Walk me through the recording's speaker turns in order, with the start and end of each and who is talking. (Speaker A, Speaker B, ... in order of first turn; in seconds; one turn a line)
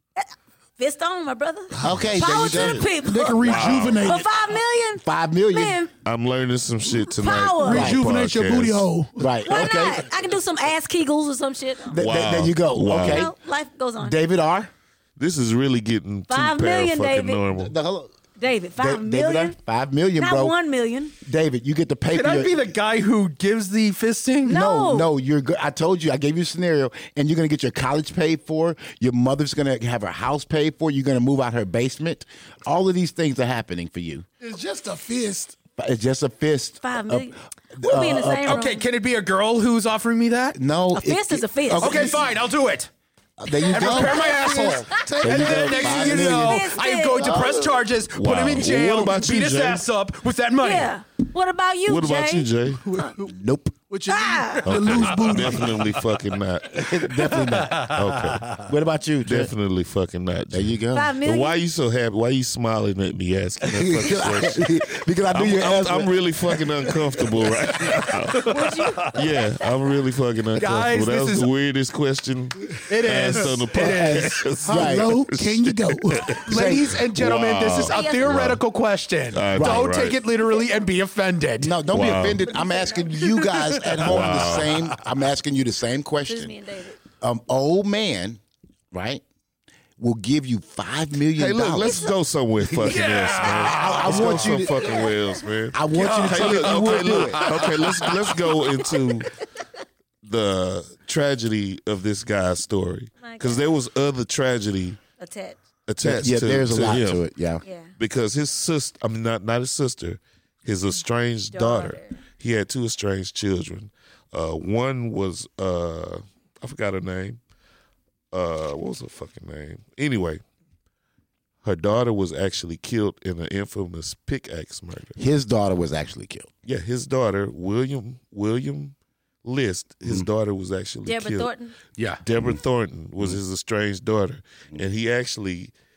Speaker A: 0.2-5.9
Speaker B: 1.8-4.1
Speaker C: 1.8-2.9
Speaker D: 3.0-4.3
Speaker C: 5.0-5.8
Speaker B: 6.0-8.9
Speaker A: 7.0-8.0
Speaker D: 7.6-9.3
Speaker C: 7.7-8.0
Speaker C: 9.2-10.1
Speaker A: 9.4-12.0
Speaker C: 11.9-13.3
Speaker B: 11.9-13.3
Speaker A: 12.9-14.2
Speaker C: 14.0-14.7
Speaker B: 15.2-17.7
Speaker A: 16.3-17.4
Speaker C: 17.5-18.2
Speaker A: 18.4-19.6
Speaker C: 18.8-20.6
Speaker A: 20.2-21.1
Speaker C: 21.2-22.7
Speaker E: 22.1-24.6
Speaker A: 24.4-25.1
Speaker C: 24.4-34.3
Speaker D: 34.4-35.5
Speaker C: 35.8-38.6
Speaker A: 36.8-38.9
Speaker E: 38.4-40.6
Speaker C: 40.5-42.2
Speaker A: 40.9-42.1
Speaker E: 41.8-42.9
Speaker C: 43.4-44.6
Speaker E: 43.6-51.0
Speaker D: 43.8-46.3
Speaker C: 45.2-47.7
Speaker A: 45.9-47.5
Speaker B: 48.1-49.9
Speaker A: 50.6-52.5
Speaker B: 51.9-52.9
Speaker D: 52.8-53.3
Speaker C: 53.2-53.8
Speaker D: 53.9-56.0
Speaker A: 54.1-54.7
Speaker B: 54.6-57.0
Speaker C: 56.7-57.9
Speaker E: 57.1-58.6
Speaker B: 57.8-58.5
Speaker C: 58.6-59.5
Speaker B: 59.2-64.7
Speaker C: 60.5-61.2
Speaker A: 60.9-61.6
Speaker C: 63.6-68.1
Speaker B: 65.3-68.5
Speaker A: 68.4-69.8
Speaker B: 69.0-76.4
Speaker E: 70.5-71.5
Speaker E: 72.9-74.5
Speaker C: 73.8-75.2
Speaker D: 74.6-76.7
Speaker C: 76.5-77.0
Speaker E: 76.5-81.8
Speaker B: 77.1-78.6
Speaker A: 77.7-78.4
Speaker B: 79.3-80.2
Speaker C: 79.5-79.9
Speaker C: 81.6-86.5
Speaker B: 81.9-82.4
Speaker A: 82.2-83.1
Speaker E: 83.5-84.4
Speaker B: 84.0-84.8
Speaker A: 86.2-87.0
Speaker C: 87.2-88.4
Speaker C: 88.9-89.2
Speaker C: 90.0-92.0
Speaker B: 91.4-99.3
Speaker E: 92.8-94.8
Speaker C: 93.5-95.0
Speaker C: 95.7-97.7
Speaker E: 95.9-98.3
Speaker B: 100.2-105.0
Speaker A: 103.2-103.7
Speaker A: 105.2-105.6
Speaker B: 105.9-107.2
Speaker C: 106.0-107.6
Speaker A: 107.6-107.9
Speaker B: 108.0-117.4
Speaker A: 111.5-112.2
Speaker B: 118.3-120.4
Speaker B: 121.6-125.2
Speaker C: 125.2-126.5
Speaker B: 126.6-131.5
Speaker A: 131.1-131.7
Speaker E: 132.0-132.2
Speaker B: 132.2-135.7